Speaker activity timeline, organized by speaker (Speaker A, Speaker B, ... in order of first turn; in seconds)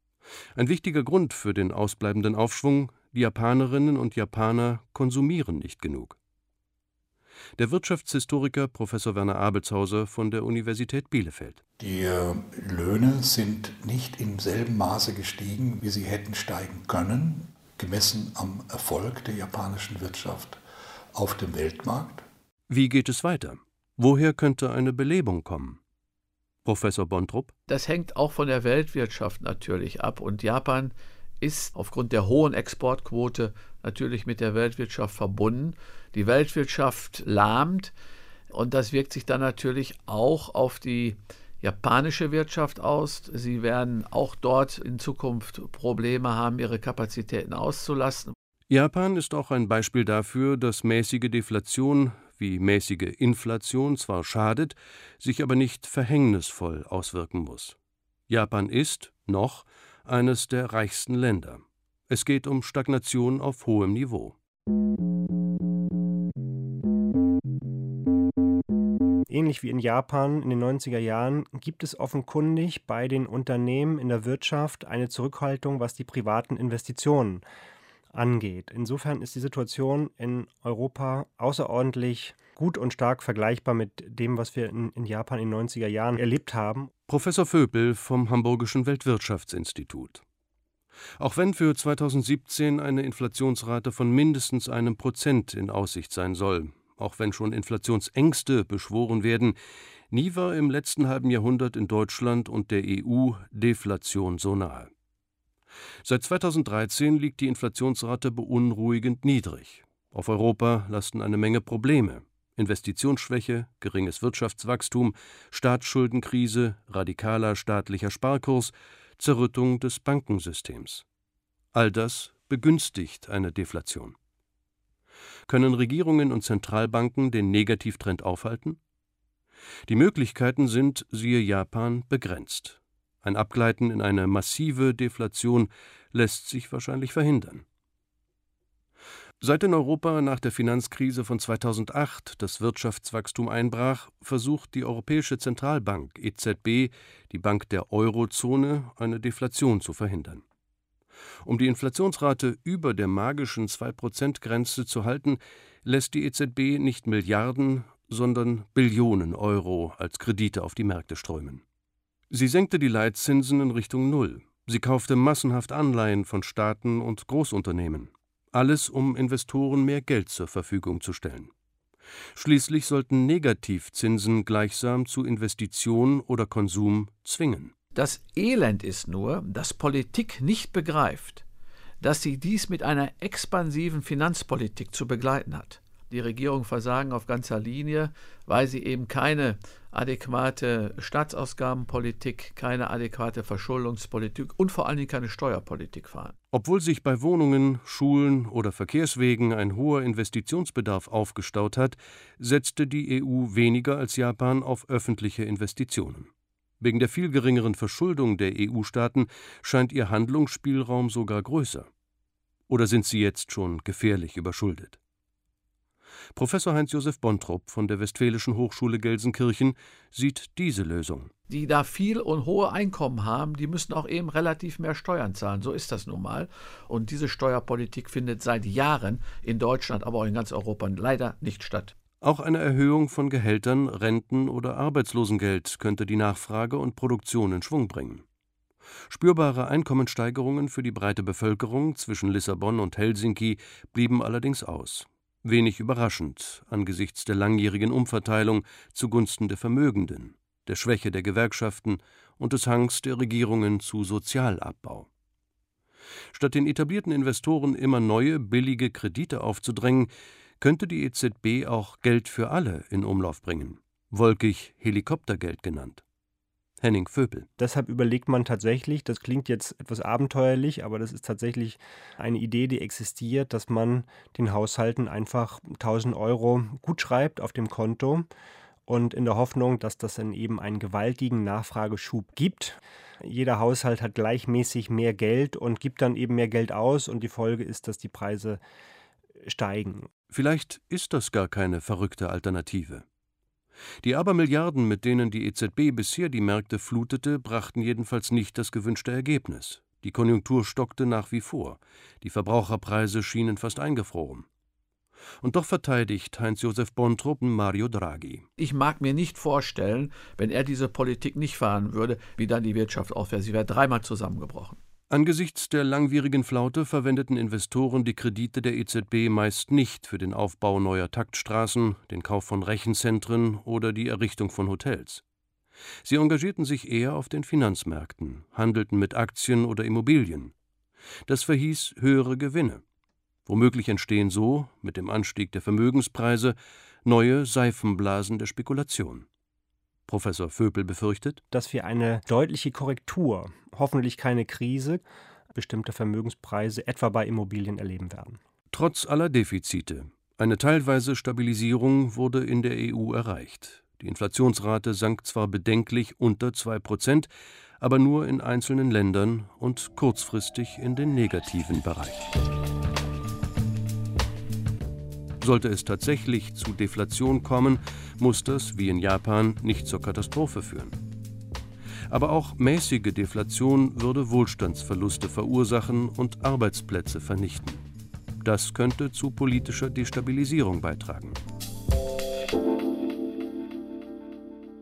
Speaker A: 0.6-6.2, 7.6-11.6, 22.7-25.8, 26.6-27.5, 48.7-57.8, 58.3-64.3, 87.1-90.2, 91.2-99.5, 100.1-104.9, 106.0-121.0, 121.7-124.1, 125.5-128.8, 129.9-137.6, 139.4-150.4, 151.4-161.6, 162.3-171.5, 172.3-177.7, 196.5-211.9, 212.7-215.0, 216.3-221.3, 232.2-238.2, 239.1-255.1, 256.3-266.0, 266.8-267.5, 290.3-293.0, 294.0-304.4, 305.4-308.4, 315.1-325.2, 326.0-330.5, 331.3-332.8, 333.4-339.3, 340.1-341.4, 348.7-357.3, 357.8-362.2, 365.4-371.0, 372.1-377.8, 378.4-381.4
Speaker B: 11.8-20.6, 21.1-22.2
Speaker C: 27.7-37.9, 38.5-48.3, 177.9-181.4, 182.0-196.3, 221.5-231.9, 308.6-314.8
Speaker D: 69.3-77.4, 78.1-86.9, 267.6-278.3, 278.9-288.6, 289.4-290.1, 341.5-348.4